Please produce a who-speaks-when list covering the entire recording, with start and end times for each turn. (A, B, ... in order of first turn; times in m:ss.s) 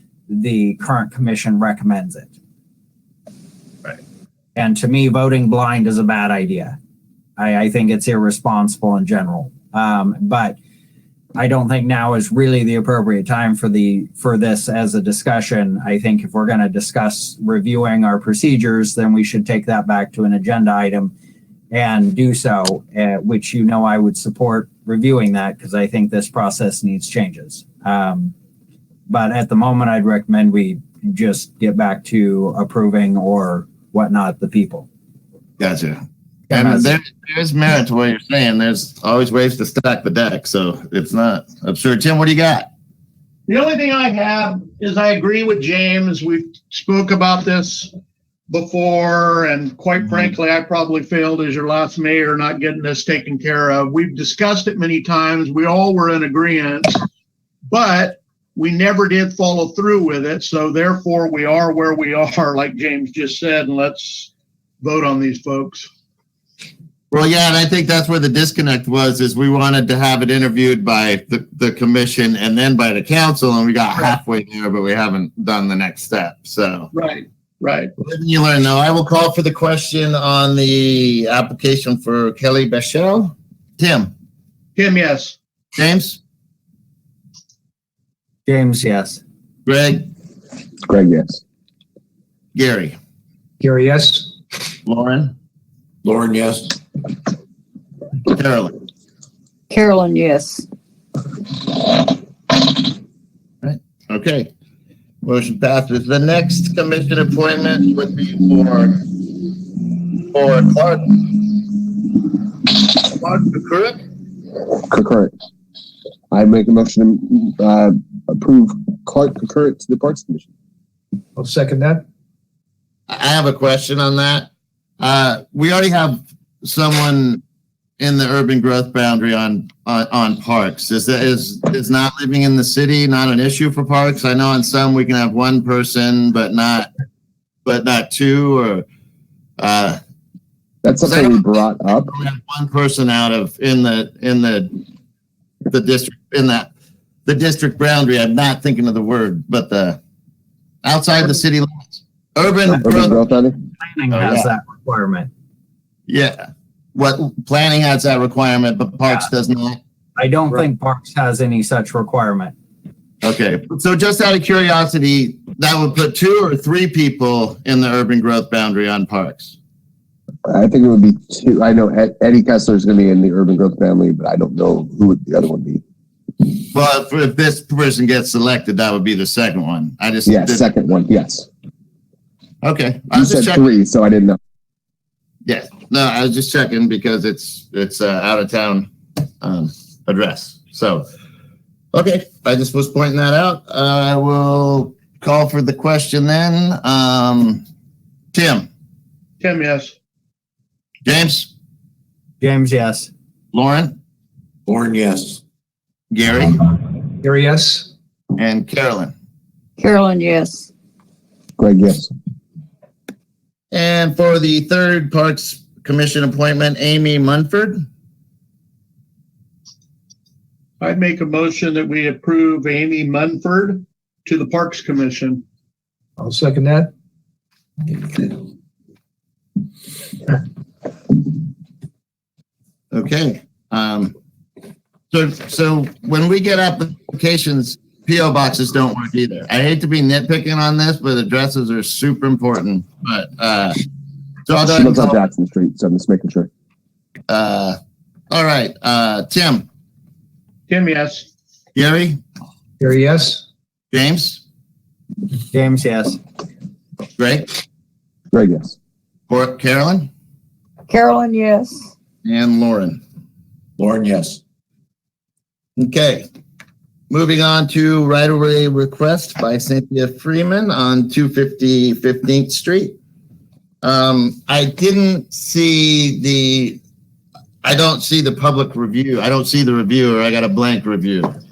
0:00.3-0:02.3 A
0:04.5-0:06.8 A
0:07.4-0:10.6 A
0:11.4-0:21.1 A
0:21.7-0:28.3 A
0:29.1-0:34.9 A
0:35.6-0:42.7 B
0:36.5-0:36.9 A
0:43.5-0:47.9 C
0:48.5-0:57.0 C
0:57.7-1:05.9 C
1:07.1-1:16.9 B
1:16.9-1:17.9 C
1:18.0-1:24.1 B
1:24.8-1:25.4 C
1:25.8-1:26.2 B
1:28.4-1:29.2 A
1:29.6-1:30.1 B
1:30.8-1:31.4 D
1:32.5-1:33.0 B
1:33.6-1:34.2 E
1:34.8-1:35.3 B
1:36.0-1:36.8 F
1:38.2-1:38.7 B
1:39.7-1:40.6 G
1:43.6-1:44.5 B
1:45.2-1:51.9 B
1:52.6-1:54.0 B
1:54.8-1:55.3 D
1:56.3-2:00.5 D
2:01.4-2:02.0 E
2:03.1-2:04.5 B
2:05.0-2:07.4 B
2:08.0-2:16.9 B
2:17.6-2:18.8 B
2:19.6-2:20.0 B
2:20.8-2:22.1 D
2:21.0-2:24.7 B
2:25.7-2:26.7 B
2:27.2-2:30.0 B
2:30.8-2:33.2 B
2:32.8-2:33.6 D
2:33.8-2:35.3 A
2:34.1-2:34.5 B
2:36.1-2:39.8 B
2:40.2-2:42.5 A
2:43.2-2:49.5 B
2:50.4-2:55.8 D
2:56.7-3:00.7 B
3:00.2-3:01.5 D
3:02.6-3:03.7 B
3:03.1-3:04.4 D
3:05.4-3:08.9 B
3:09.4-3:11.0 B
3:11.9-3:17.6 B
3:18.3-3:18.7 B
3:19.4-3:19.9 C
3:21.0-3:21.5 B
3:22.4-3:23.1 A
3:23.5-3:24.0 B
3:24.7-3:25.4 F
3:26.1-3:26.6 B
3:27.2-3:27.8 E
3:28.3-3:29.1 B
3:29.8-3:30.7 G
3:31.6-3:32.1 D
3:33.7-3:37.8 B
3:40.8-3:45.4 C
3:46.2-3:46.9 E
3:52.9-3:54.1 B
3:55.1-4:03.8 B
4:04.5-4:05.2 B
4:04.6-4:06.5 D
4:07.3-4:07.8 B
4:08.3-4:09.6 B
4:10.7-4:11.3 C
4:11.7-4:12.2 B
4:12.8-4:13.4 E
4:13.9-4:14.4 B
4:15.5-4:16.2 A
4:17.2-4:17.5 B
4:18.3-4:18.7 D
4:19.3-4:20.1 B
4:20.9-4:21.8 G
4:22.2-4:23.0 B
4:23.8-4:24.4 F
4:25.8-4:26.2 B
4:27.1-4:33.0 B
4:33.8-4:36.8 B
4:37.6-4:41.4 B